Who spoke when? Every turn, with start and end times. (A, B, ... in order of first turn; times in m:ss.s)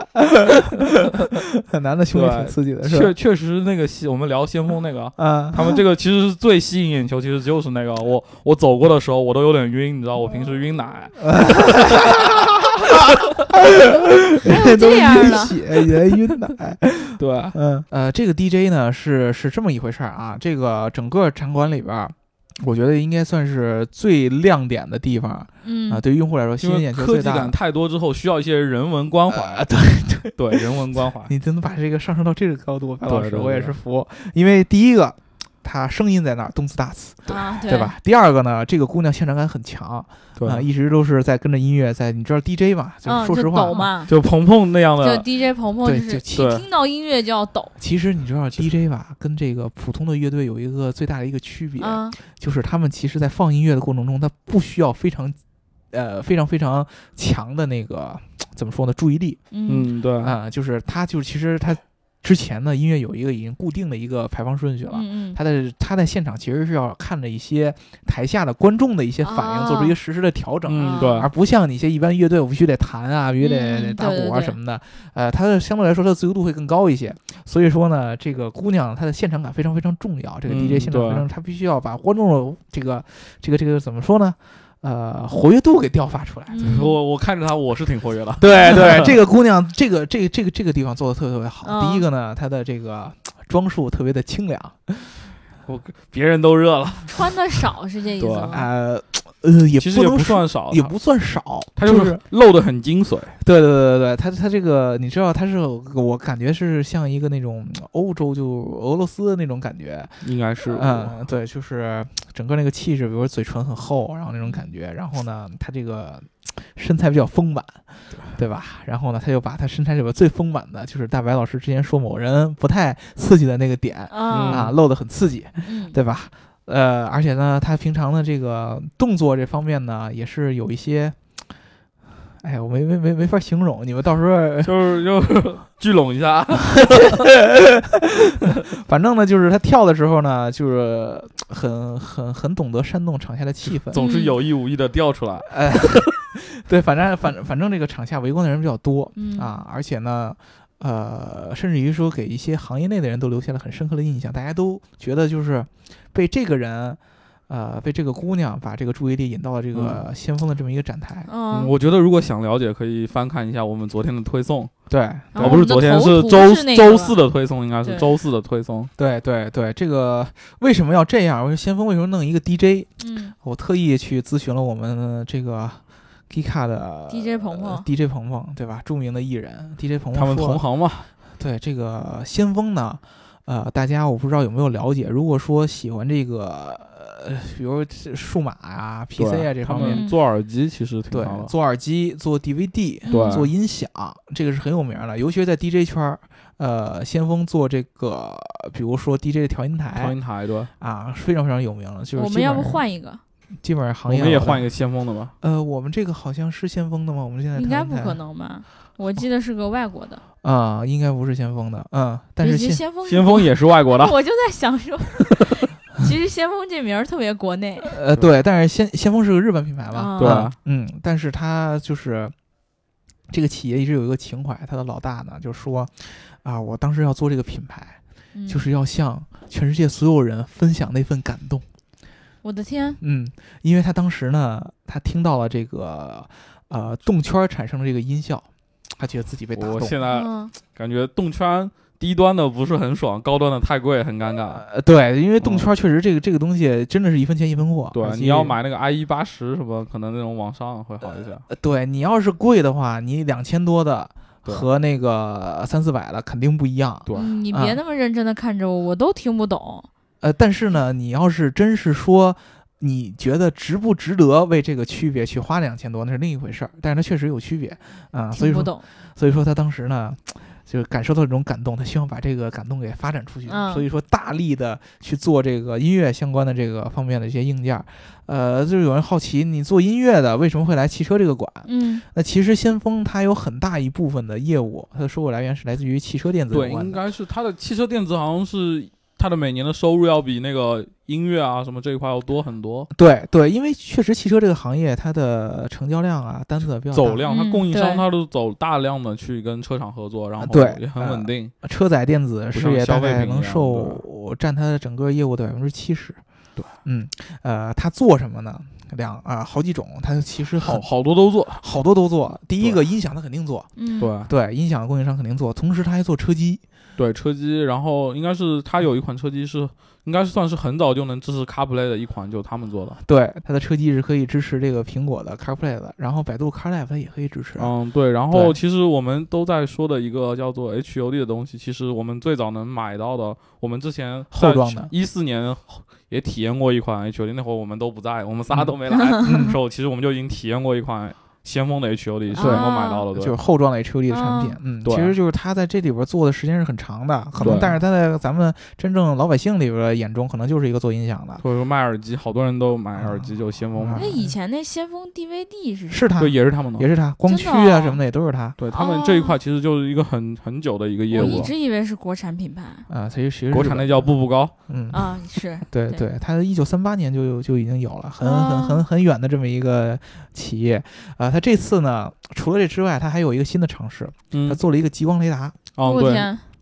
0:00.2-0:03.1 A
0:00.8-0:01.4 B
0:02.1-0:13.4 B
0:05.2-0:05.8 A
0:11.2-0:13.0 A
0:13.5-0:27.6 A
0:14.4-0:15.6 C
0:17.2-0:17.6 B
0:25.6-0:26.0 C
0:26.6-0:29.7 B
0:29.3-0:43.9 A
0:30.4-0:31.3 B
0:33.0-0:33.8 B
0:37.3-0:37.9 C
0:40.4-0:40.7 B
0:43.0-0:44.1 C
0:44.1-0:45.3 B
0:45.0-0:47.7 C
0:45.8-0:46.6 A
0:46.3-0:46.6 B
0:47.8-0:55.4 A
0:51.8-0:52.2 C
0:55.9-0:59.4 A
0:59.5-0:59.9 C
0:59.7-1:00.4 B
1:00.2-1:26.8 A
1:04.9-1:05.4 C
1:09.2-1:10.0 C
1:10.7-1:11.3 B
1:10.8-1:11.3 C
1:13.4-1:14.6 C
1:20.5-1:21.3 B
1:26.5-1:27.0 C
1:26.6-1:29.2 B
1:28.4-1:35.3 A
1:31.6-1:32.0 C
1:35.7-1:37.2 B
1:37.1-1:38.7 C
1:38.2-1:38.6 B
1:38.5-1:42.2 A
1:39.8-1:40.9 B
1:41.8-1:43.4 B
1:43.4-2:11.2 A
1:50.2-1:51.2 B
2:04.1-2:04.7 C
2:04.3-2:04.8 B
2:05.6-2:06.0 C
2:12.4-2:14.9 A
2:14.6-2:17.2 B
2:16.8-2:24.0 A
2:23.8-2:26.1 B
2:23.9-2:24.3 C
2:25.5-2:41.3 A
2:29.2-2:29.6 C
2:39.7-2:40.0 B
2:41.3-2:41.7 C
2:41.5-2:44.7 B
2:44.9-2:45.6 A
2:45.3-2:47.2 C
2:45.4-2:48.9 B
2:49.0-2:52.9 A
2:53.0-2:53.4 C
2:53.4-3:00.6 A
2:57.1-2:57.9 C
3:00.1-3:01.1 B
3:01.4-3:10.1 A
3:09.2-3:11.5 B
3:09.8-3:10.2 C
3:11.1-3:20.2 A
3:13.1-3:13.4 C
3:13.1-3:13.5 B
3:19.9-3:20.7 B
3:20.8-3:22.8 A
3:22.2-3:23.2 C
3:23.6-3:24.7 A
3:24.1-3:25.3 B
3:25.4-3:28.2 A
3:27.5-3:30.2 C
3:30.4-3:32.8 A
3:32.4-3:37.9 C
3:33.0-3:34.2 B
3:37.8-3:42.3 A
3:39.9-3:40.5 C
3:40.2-3:40.6 B
3:43.3-3:51.7 A
3:48.3-3:48.7 C
3:52.4-3:53.0 C
3:53.0-4:00.0 A
3:59.6-4:04.6 B
4:00.1-4:00.5 C
4:04.5-4:08.6 A
4:05.4-4:05.7 B
4:07.9-4:11.5 B
4:11.0-4:17.8 A
4:17.1-4:17.3 B
4:17.1-4:19.9 C
4:20.2-4:47.0 A
4:28.3-4:28.8 C
4:33.5-4:33.8 C
4:41.7-4:42.0 C
4:46.5-4:52.9 B
4:52.9-4:57.2 A
4:56.9-5:01.5 B
4:57.3-4:58.0 C
5:00.4-5:06.2 A
5:02.5-5:04.0 B
5:06.8-5:10.9 A
5:10.6-5:11.6 B
5:11.6-5:13.7 A
5:13.8-5:14.1 C
5:14.0-5:14.3 B
5:14.3-5:16.6 A
5:17.0-5:23.0 B
5:23.0-5:27.7 A
5:27.6-5:43.4 B
5:28.3-5:28.6 A
5:34.3-5:34.9 A
5:38.5-5:39.6 A
5:42.3-5:51.4 A
5:42.4-5:43.0 C
5:44.1-5:44.6 C
5:44.8-5:45.2 B
5:47.4-5:47.8 B
5:51.4-5:54.1 B
5:53.0-5:54.3 A
5:54.0-5:56.1 C
5:55.9-5:58.6 A
5:56.2-5:56.9 B
5:57.3-5:58.0 C
5:58.6-6:01.5 B
5:58.7-5:59.4 C
6:01.1-6:01.5 A
6:01.1-6:02.9 C
6:02.9-6:04.1 A
6:03.5-6:04.5 B
6:04.7-6:15.6 A
6:04.9-6:06.0 C
6:08.2-6:08.8 C
6:14.3-6:14.6 B
6:15.8-6:16.3 B
6:15.8-6:16.4 C